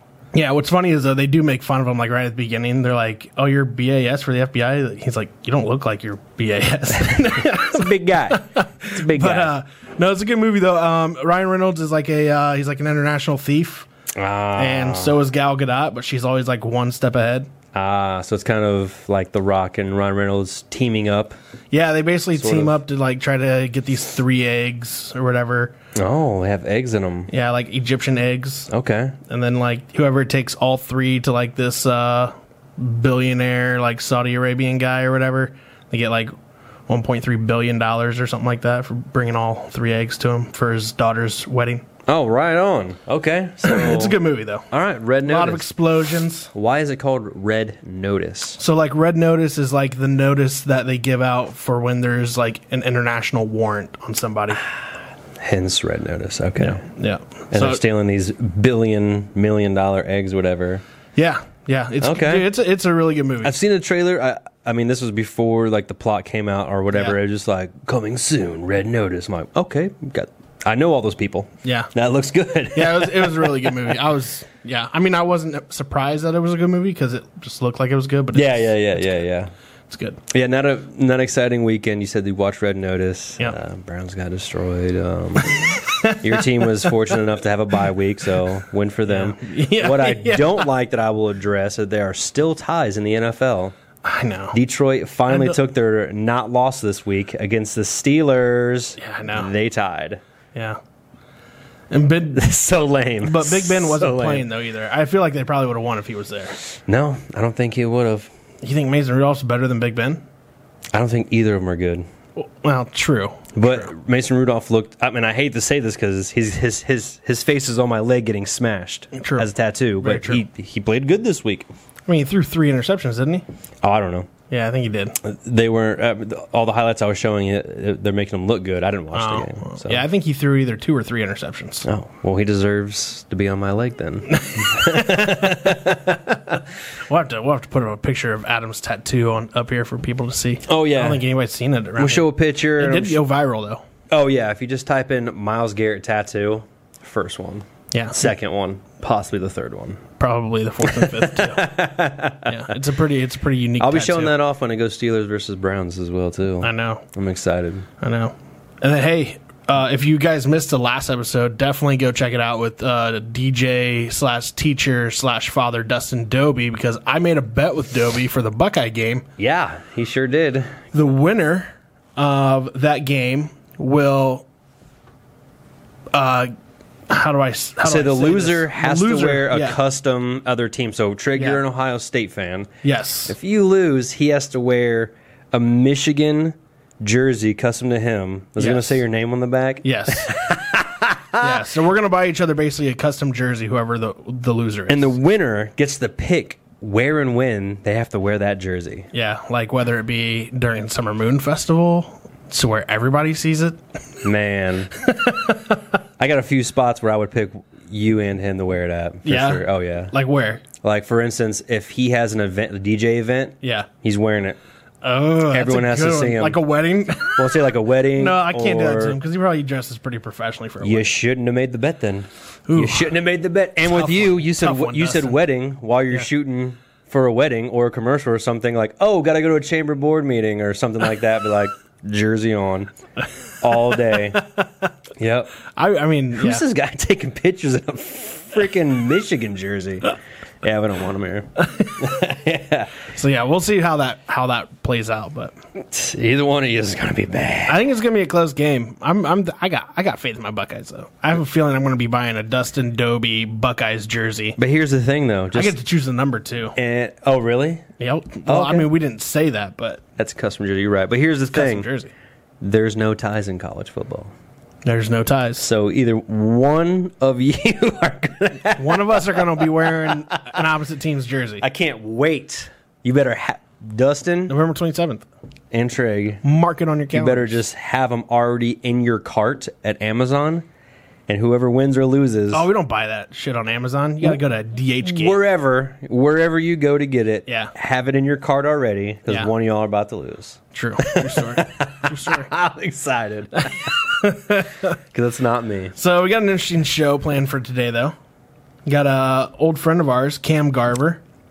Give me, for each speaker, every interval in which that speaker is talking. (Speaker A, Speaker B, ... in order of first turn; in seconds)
Speaker A: 0.3-13.9, 14.5-17.5, 21.7-25.7, 27.3-28.7, 29.3-36.3, 36.9-41.8, 43.6-44.6, 45.2-46.5, 48.6-54.6, 56.6-57.8, 61.1-63.5, 71.6-71.9, 72.7-79.1, 79.9-80.2, 85.4-86.9, 89.1-90.7, 94.0-94.6, 95.3-95.6, 99.0-99.5, 101.9-102.4, 103.2-106.6, 108.6-110.2, 112.4-113.9, 119.1-119.5, 120.0-120.4, 122.1-123.4, 124.5-125.2, 129.1-131.9, 134.3-135.8, 137.1-143.8, 147.9-148.3, 150.2-151.7, 152.4-154.3, 156.6-157.0, 158.0-169.2, 170.9-174.4, 176.1-176.5, 177.1-179.8, 181.3-181.6, 182.8-183.3, 188.6-189.0, 189.8-190.4, 191.4-195.1, 199.1-203.8, 205.0-205.7, 209.2-210.6, 213.6-213.9, 215.0-217.6, 218.2-221.1, 222.7-223.1, 223.8-225.4, 233.8-234.7, 235.7-236.6, 241.7-242.1, 243.1-245.5, 247.7-254.6, 255.5-256.7, 258.0-260.0, 261.5-262.1, 264.8-265.7, 268.8-271.6, 274.5-275.2, 276.4-277.6, 282.5-285.4, 290.7-292.5, 293.9-294.9, 295.9-298.1, 298.9-301.2
Speaker B: 7.0-8.4, 8.9-9.5, 14.2-15.2, 17.7-21.4, 22.4-22.7, 25.9-27.3, 28.7-29.1, 42.1-45.7, 46.5-48.6, 55.4-56.8, 57.5-60.8, 62.0-62.5, 63.4-73.9, 78.3-79.5, 80.3-93.7, 94.5-100.2, 102.3-104.5, 106.9-108.3, 110.9-112.0, 113.5-121.7, 123.8-124.3, 125.2-130.0, 131.8-136.6, 140.7-141.2, 142.0-143.2, 144.1-150.0, 150.9-152.5, 153.8-157.8, 169.4-170.7, 177.8-182.7, 183.3-191.6, 194.9-199.1, 204.2-204.9, 206.2-210.1, 210.8-214.6, 215.5-216.6, 217.4-219.2, 220.8-232.9, 233.6-234.4, 235.2-235.5, 236.3-242.9, 245.8-247.8, 254.6-255.8, 256.8-257.8, 258.4-258.9, 260.2-261.9, 262.6-264.3, 265.6-270.4, 271.6-274.5, 275.7-276.4, 277.1-280.6, 281.3-282.7, 285.0-293.9, 295.1-295.9